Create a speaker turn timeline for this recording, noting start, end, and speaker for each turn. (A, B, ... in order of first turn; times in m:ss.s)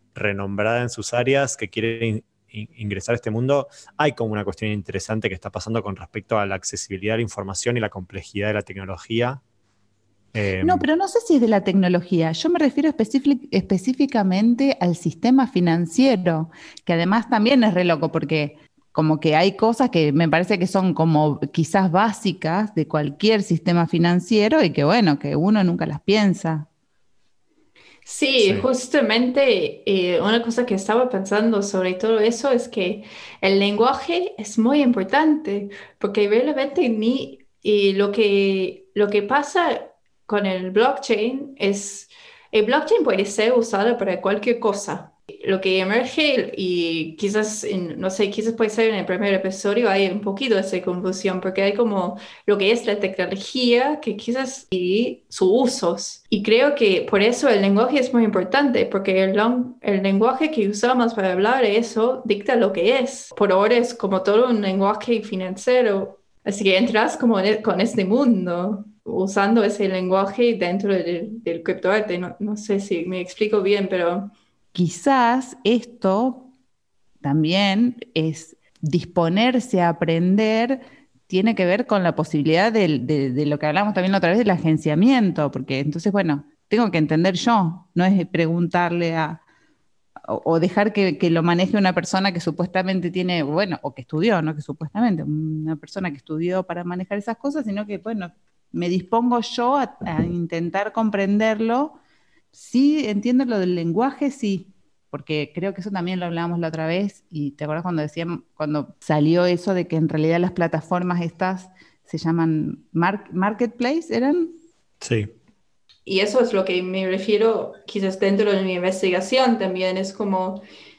0:00.2-0:09.4 A
0:10.3-0:10.9 A
0:10.6-0:26.7 B
0:28.1-1:14.3 C
1:14.7-1:16.5 B
1:17.2-1:29.4 B
1:30.3-1:42.0 B
1:42.5-1:54.6 B
1:55.0-1:55.3 A
1:56.1-2:00.6 C